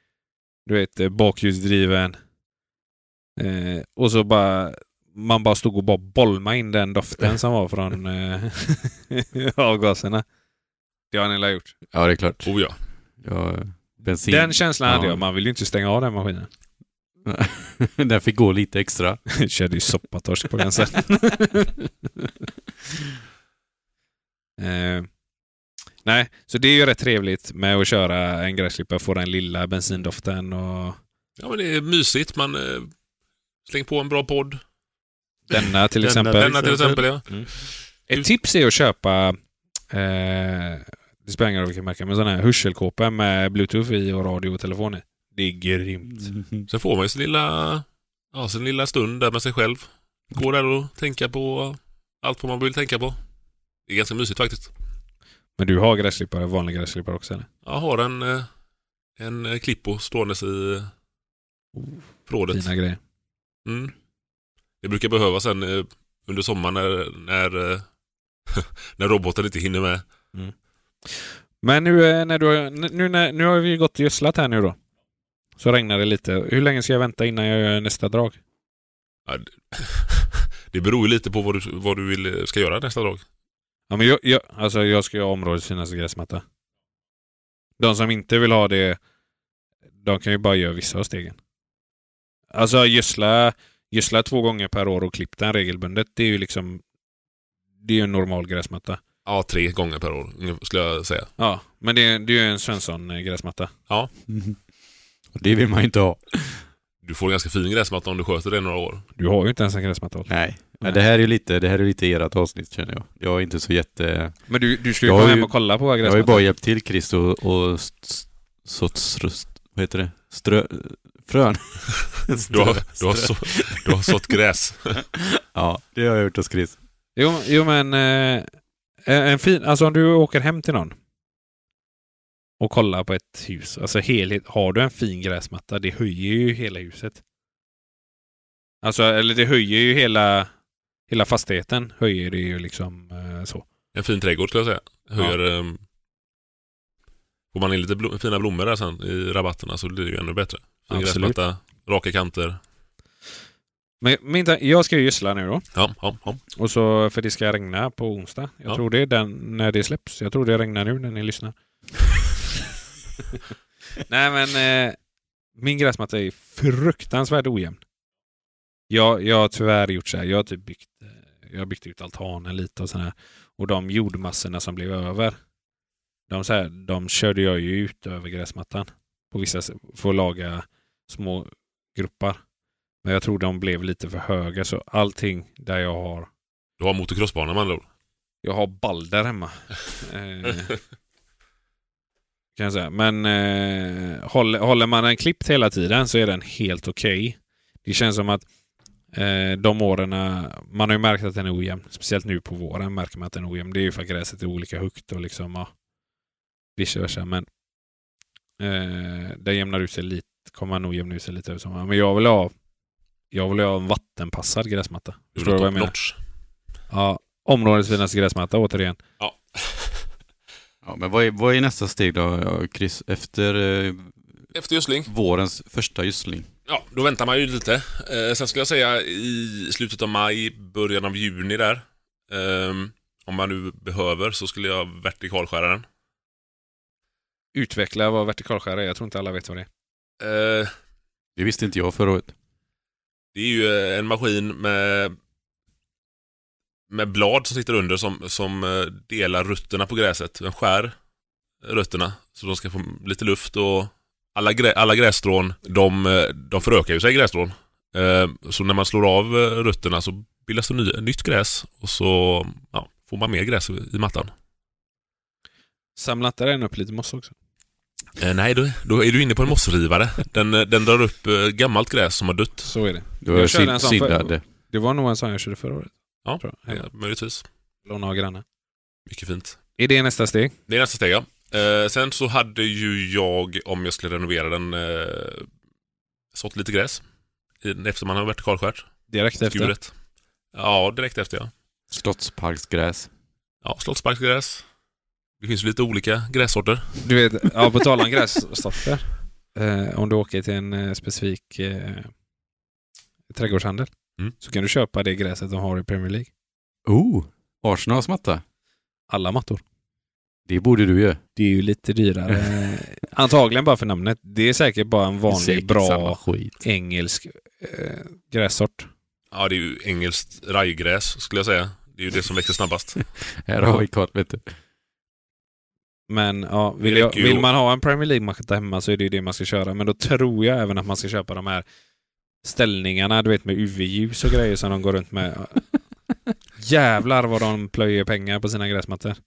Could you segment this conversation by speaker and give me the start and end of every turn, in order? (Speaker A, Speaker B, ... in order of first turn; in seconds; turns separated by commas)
Speaker A: 0.7-2.1, Speaker A: 3.4-10.2, Speaker A: 11.1-11.8, Speaker B: 11.9-12.5, Speaker C: 12.4-12.8, Speaker B: 13.2-15.2, Speaker A: 14.3-16.5, Speaker B: 17.2-19.2, Speaker A: 19.3-21.9, Speaker A: 24.6-25.1, Speaker A: 26.1-31.0, Speaker C: 31.4-32.9, Speaker C: 33.6-34.6, Speaker A: 35.5-36.6, Speaker C: 36.0-38.2, Speaker B: 36.2-37.0, Speaker A: 38.1-39.4, Speaker A: 39.9-46.4, Speaker B: 46.4-46.6, Speaker C: 46.7-53.2, Speaker C: 53.9-54.7, Speaker A: 55.6-57.5, Speaker C: 57.6-58.5, Speaker C: 59.2-60.9, Speaker A: 61.8-63.0, Speaker C: 62.3-62.7, Speaker C: 63.6-63.9, Speaker C: 64.8-67.9, Speaker C: 68.5-70.0, Speaker A: 71.1-74.8, Speaker A: 75.6-78.4, Speaker C: 79.3-83.2, Speaker A: 83.9-86.4, Speaker A: 87.8-89.0, Speaker A: 90.0-91.4, Speaker A: 92.5-96.8, Speaker A: 97.8-99.0, Speaker C: 99.2-101.3, Speaker A: 101.4-103.7, Speaker B: 104.3-104.6, Speaker B: 105.3-106.7, Speaker C: 107.0-109.0, Speaker A: 109.2-110.3, Speaker B: 110.3-114.5, Speaker A: 114.5-116.4, Speaker B: 115.0-124.3, Speaker C: 122.5-125.0, Speaker B: 125.1-126.8, Speaker A: 127.2-128.5, Speaker A: 129.1-130.9, Speaker A: 132.6-137.2, Speaker A: 138.8-140.5, Speaker A: 141.1-143.7, Speaker C: 143.9-145.8, Speaker C: 147.5-152.6, Speaker A: 150.9-151.4, Speaker A: 154.0-155.6, Speaker C: 155.8-156.4, Speaker A: 156.5-161.5, Speaker A: 164.0-165.0, Speaker A: 165.6-167.8, Speaker A: 168.9-175.4, Speaker A: 176.3-182.4, Speaker A: 183.0-186.3, Speaker C: 186.8-187.8, Speaker A: 188.4-190.8, Speaker A: 192.6-198.4, Speaker A: 199.1-205.7, Speaker A: 206.8-207.5, Speaker A: 208.6-212.5, Speaker A: 213.3-215.9, Speaker C: 215.4-216.2, Speaker A: 216.9-219.0, Speaker C: 219.2-220.1, Speaker B: 220.8-224.2, Speaker C: 224.6-225.1, Speaker B: 225.1-226.5, Speaker C: 226.7-235.9, Speaker A: 237.5-239.7, Speaker C: 240.2-240.7, Speaker B: 241.4-242.3, Speaker C: 243.3-245.2, Speaker C: 246.9-250.9, Speaker C: 251.6-264.3, Speaker A: 265.9-267.3, Speaker C: 268.2-272.7, Speaker A: 272.6-276.9, Speaker B: 273.2-274.4, Speaker C: 276.2-277.4, Speaker A: 277.9-278.4, Speaker C: 279.1-279.6, Speaker A: 279.8-280.6, Speaker C: 280.7-285.5, Speaker C: 286.3-287.0, Speaker C: 287.6-288.9, Speaker A: 289.1-289.7, Speaker C: 289.4-289.9, Speaker C: 290.5-291.5, Speaker B: 291.9-293.1, Speaker C: 293.6-294.6, Speaker C: 295.4-297.1, Speaker A: 297.0-302.1, Speaker A: 303.3-303.9, Speaker A: 304.4-306.3, Speaker B: 306.9-308.4, Speaker A: 309.1-309.6, Speaker B: 310.4-311.2, Speaker A: 311.4-318.9, Speaker B: 315.3-316.6, Speaker C: 319.3-323.0, Speaker B: 323.2-324.4, Speaker A: 326.1-331.6, Speaker C: 326.8-327.5, Speaker A: 332.4-335.7, Speaker A: 336.6-339.2